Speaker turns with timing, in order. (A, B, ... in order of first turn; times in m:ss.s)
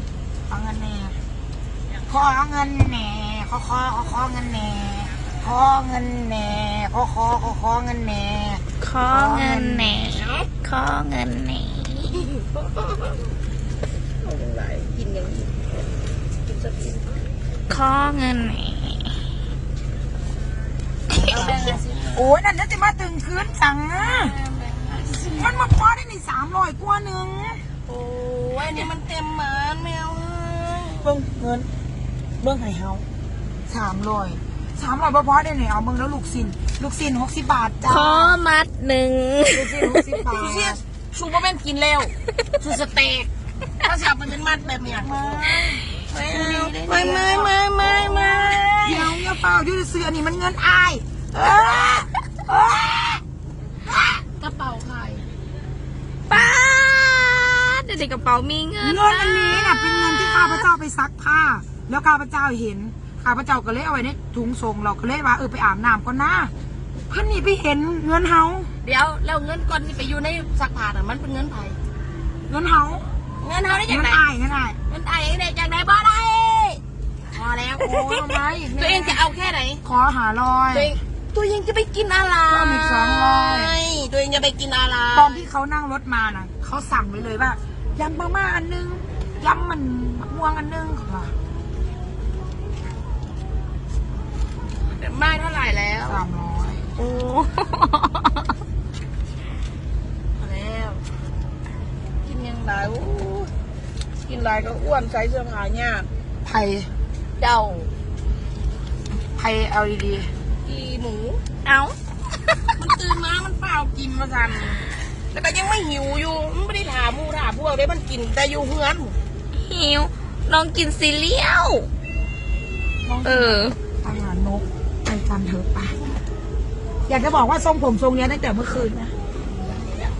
0:00.5-0:01.2 A
0:02.1-0:10.1 A
0:08.8-0:12.3 B
0:12.1-0:13.2 C
0:14.2-0:15.6 C
0:16.5-0:17.1 C
0:17.7-0:19.2 B
0:21.3-0:22.3 C
0:21.3-0:24.3 A
0:24.0-0:25.5 C
0:25.3-0:27.6 A
0:27.9-0:31.0 C
0:31.0-0:31.7 A
0:32.4-0:33.0 A
0:33.7-0:38.4 A
0:37.8-0:40.2 B
0:39.5-0:40.8 A
0:40.3-0:43.3 C
0:43.8-0:45.4 C
0:45.0-0:48.3 A
0:46.1-0:49.2 C
0:48.8-0:53.2 A
0:53.9-0:54.2 A
0:54.3-0:55.2 C
0:56.3-1:00.6 B
0:58.8-1:06.5 A
1:07.1-1:08.7 A
1:08.8-1:11.8 C
1:12.5-1:13.0 A
1:13.4-1:14.2 C
1:13.9-1:14.8 A
1:14.9-1:16.8 C
1:17.3-1:19.8 C
1:17.8-1:19.2 A
1:19.8-1:21.0 A
1:20.7-1:25.5 C
1:22.5-1:23.8 A
1:25.1-1:31.3 A
1:35.0-1:36.3 C
1:36.1-1:36.8 A
1:37.0-1:38.5 B
1:40.4-1:41.0 C
1:42.2-1:43.5 C
1:44.3-1:46.1 C
1:46.4-1:46.9 A
1:47.4-1:47.9 C
1:49.4-1:50.3 A
1:50.6-1:51.4 C
1:51.6-1:52.0 B
1:52.8-1:59.2 C
1:59.6-2:01.9 B
2:03.0-2:06.0 A
2:03.2-2:03.8 B
2:07.1-2:09.1 A